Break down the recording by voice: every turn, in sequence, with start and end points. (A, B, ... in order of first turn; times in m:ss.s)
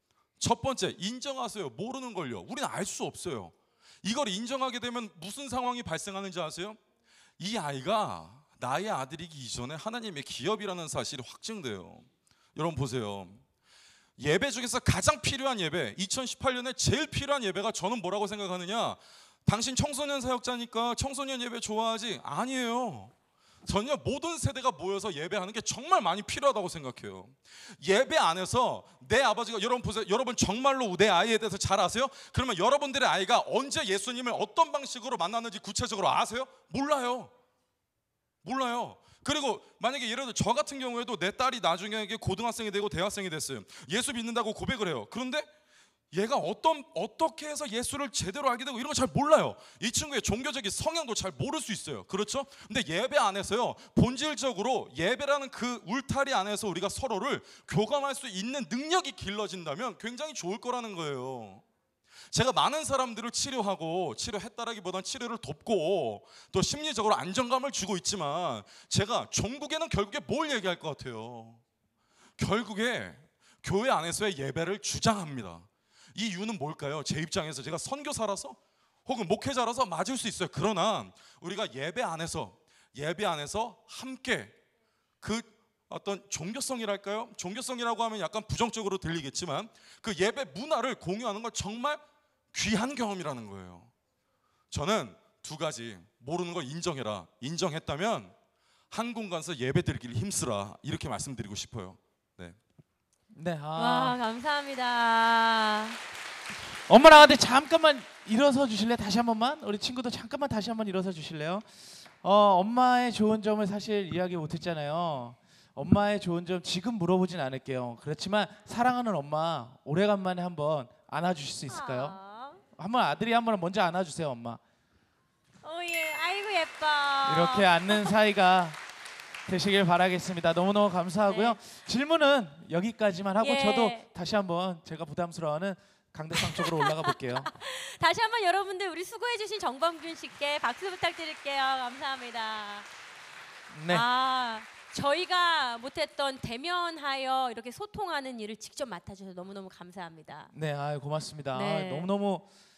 0:00.4-0:06.8 A
0:07.4-0:13.4 A
0:14.2-0:23.1 A
0:23.6-0:37.3 A
0:38.4-0:45.5 A
0:46.1-1:01.6 A
1:02.3-1:11.6 A
1:12.4-1:24.5 A
1:25.2-1:32.0 A
1:32.5-1:33.9 A
1:34.7-1:38.3 A
1:38.9-1:42.6 A
1:43.3-1:44.2 B
1:43.8-1:46.0 C
1:46.9-1:51.7 B
1:52.2-2:02.2 B
2:01.7-2:02.6 C
2:02.7-2:04.6 B
2:05.6-2:08.1 C
2:07.2-2:08.8 B
2:09.5-2:17.5 B
2:11.3-2:11.6 C
2:13.4-2:14.1 C
2:16.3-2:22.9 C
2:23.7-2:24.1 B
2:23.9-2:30.5 C
2:30.5-2:32.5 B
2:31.5-2:32.1 C